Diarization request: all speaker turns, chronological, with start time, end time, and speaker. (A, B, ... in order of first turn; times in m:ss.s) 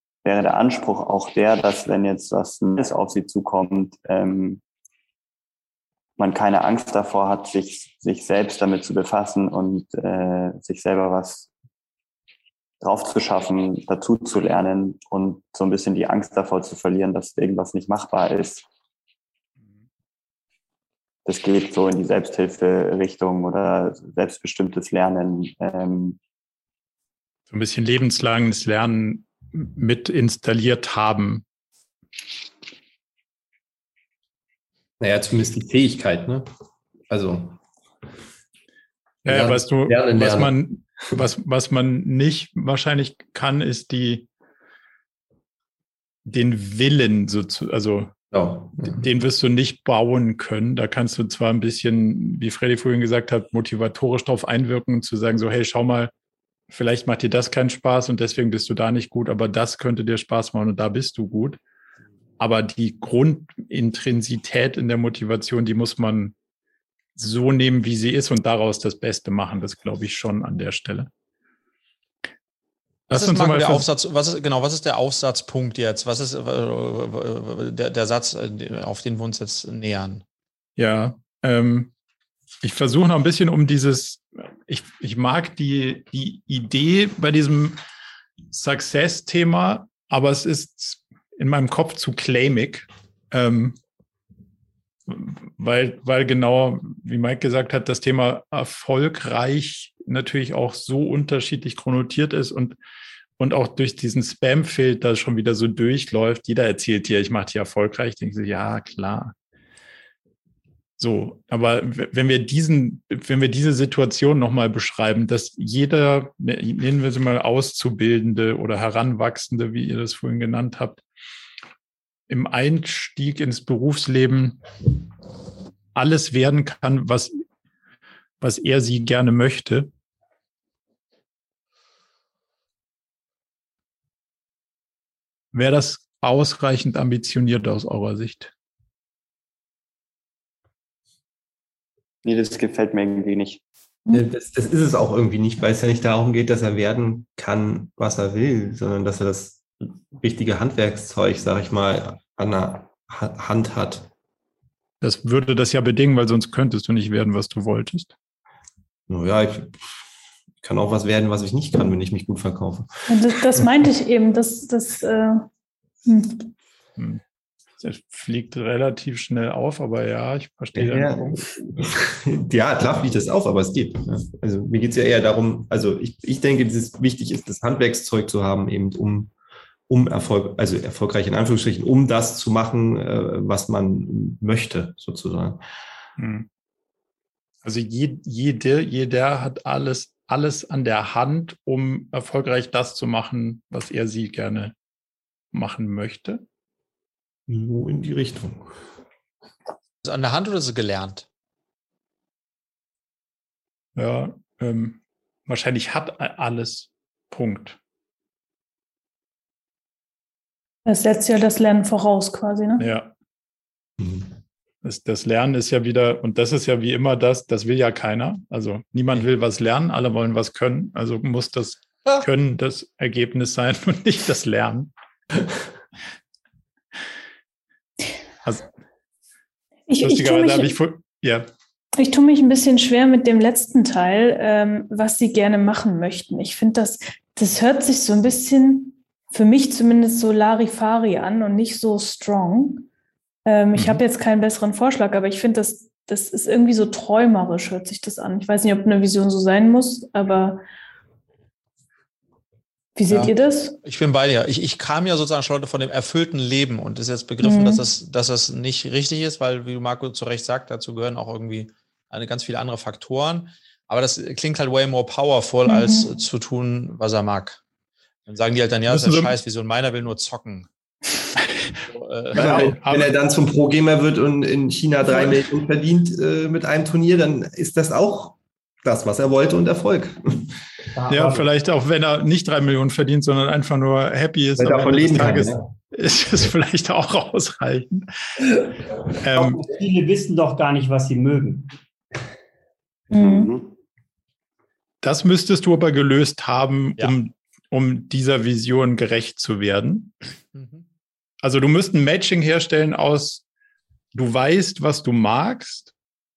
0:00.2-0:04.6 A
0:06.2-0:11.5 A
0:12.8-0:18.7 A
0:21.3-0:26.2 A
0:27.5-0:31.4 B
0:35.0-0:36.5 C
0:37.1-0:37.6 C
0:39.2-0:44.3 B
0:39.3-0:40.6 C
0:46.2-0:48.2 B
0:48.3-0:49.0 C
0:48.8-0:56.1 B
0:56.7-1:01.6 B
1:02.4-1:06.4 B
1:07.2-1:11.1 B
1:13.1-1:13.9 B
1:13.1-1:20.2 D
1:20.8-1:21.9 B
1:22.6-1:27.8 B
1:28.5-1:33.8 B
1:35.1-1:42.8 B
1:43.4-1:49.3 B
1:51.0-2:01.0 B
2:02.3-2:04.6 B
2:06.0-2:07.4 B
2:08.4-2:09.9 B
2:15.5-2:18.5 B
2:22.2-2:23.6 A
2:24.1-2:34.1 C
2:35.0-2:38.1 B
2:39.1-2:40.0 C
2:40.6-2:43.5 C
2:43.1-2:45.5 E
2:46.0-2:46.5 E
2:47.0-2:47.2 B
2:47.8-2:51.4 B
2:50.8-2:59.3 C
2:59.9-3:05.6 C
3:06.2-3:06.5 B
3:07.6-3:14.8 B
3:15.5-3:16.4 B
3:17.5-3:18.8 C
3:20.0-3:21.3 D
3:24.0-3:27.8 B
3:30.9-3:32.9 E
3:32.8-3:33.1 B
3:34.8-3:44.9 B
3:49.9-3:50.8 E
3:50.0-3:51.5 B
3:52.0-4:02.9 E
4:03.5-4:10.6 E
4:03.8-4:04.0 B
4:13.0-4:13.8 E
4:13.1-4:27.6 D
4:17.4-4:17.9 E
4:25.7-4:26.1 E
4:28.3-4:30.7 D
4:28.9-4:29.3 B
4:31.8-4:32.7 D
4:32.3-4:40.6 C
4:32.4-4:33.1 B
4:41.0-4:41.5 F
4:41.1-4:48.5 B
4:44.6-4:45.7 C
4:49.2-4:49.6 B
4:49.4-4:51.7 F
4:53.1-4:53.5 E
4:53.1-4:53.7 A
4:55.0-5:00.1 B
5:00.6-5:00.8 D
5:01.4-5:03.4 B
5:04.1-5:05.9 B